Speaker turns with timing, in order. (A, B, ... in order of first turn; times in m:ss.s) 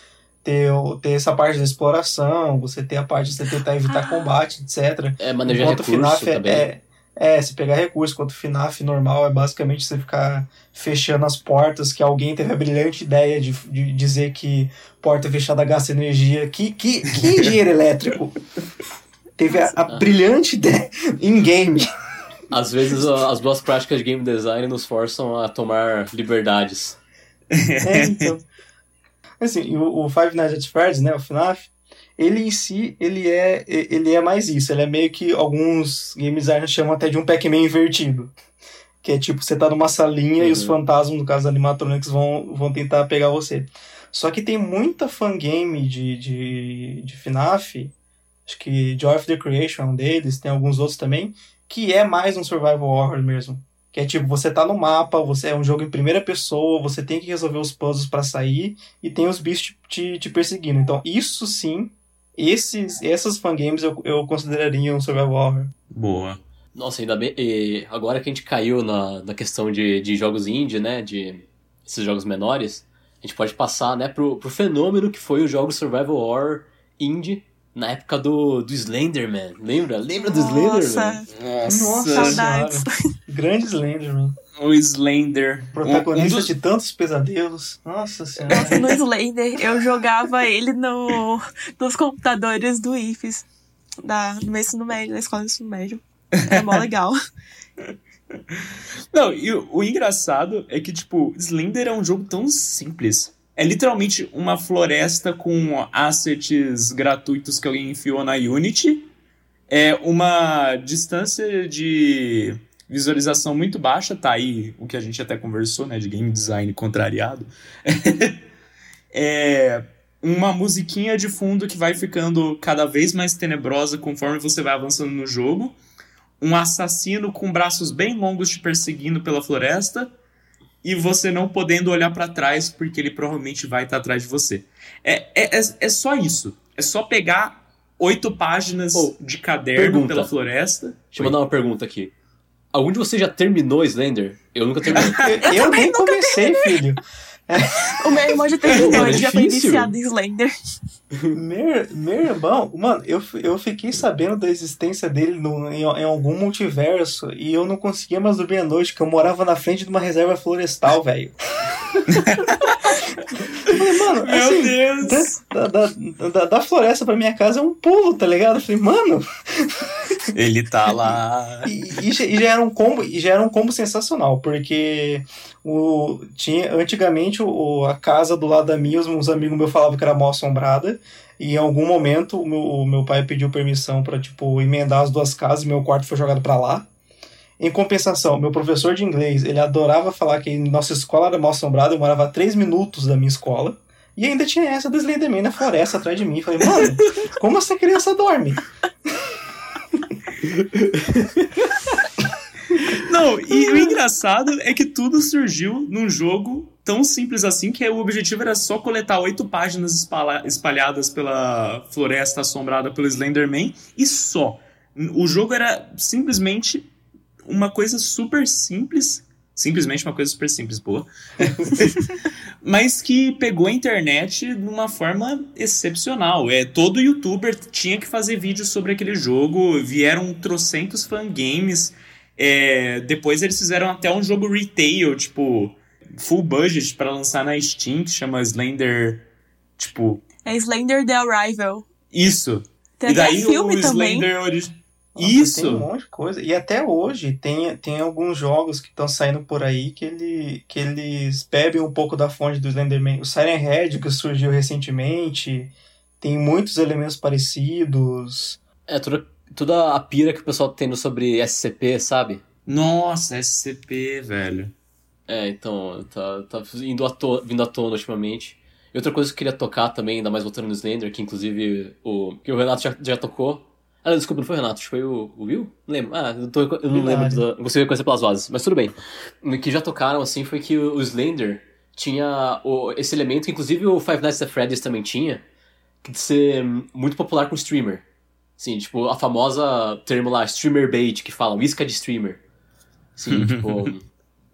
0:00.4-0:18.4 A
0:05.2-0:06.7 B
0:19.4-0:21.9 A
0:19.5-0:19.7 C
0:22.5-0:27.0 B
0:27.5-0:28.3 D
0:27.8-0:28.4 A
0:29.4-0:38.3 A
0:39.0-0:47.9 A
0:40.4-0:40.8 B
0:48.4-1:05.7 A
1:05.9-1:06.4 D
1:06.7-1:21.2 B
1:20.2-1:21.3 C
1:21.3-1:22.4 D
1:21.6-1:24.4 A
1:22.1-1:22.9 C
1:24.6-1:26.5 D
1:25.7-1:28.8 A
1:28.5-1:33.5 C
1:34.0-1:37.2 C
1:36.4-1:36.8 D
1:39.1-1:49.1 D
1:49.7-1:58.4 D
1:59.1-2:05.7 D
2:06.4-2:10.1 D
2:10.8-2:21.3 D
2:19.8-2:20.3 B
2:21.1-2:22.1 B
2:22.7-2:25.3 B
2:24.9-2:25.4 D
2:25.1-2:28.4 A
2:25.4-2:26.7 C
2:28.0-2:30.5 C
2:28.7-2:29.9 B
2:31.3-2:42.2 A
2:42.1-2:42.8 D
2:43.6-2:50.3 A
2:43.7-2:45.4 D
2:50.3-2:51.7 D
2:50.9-3:06.9 A
3:07.6-3:18.6 A
3:20.4-3:21.6 B
3:22.9-3:36.9 D
3:37.4-4:00.2 D
4:00.4-4:01.9 C
4:02.1-4:05.9 D
4:03.0-4:04.3 C
4:05.1-4:18.6 A
4:18.9-4:22.4 B
4:22.7-4:24.7 D
4:25.3-4:45.4 B
4:36.9-4:37.4 A
4:46.0-4:48.0 B
4:48.6-4:52.4 B
4:53.2-4:54.0 B
4:53.3-4:53.9 D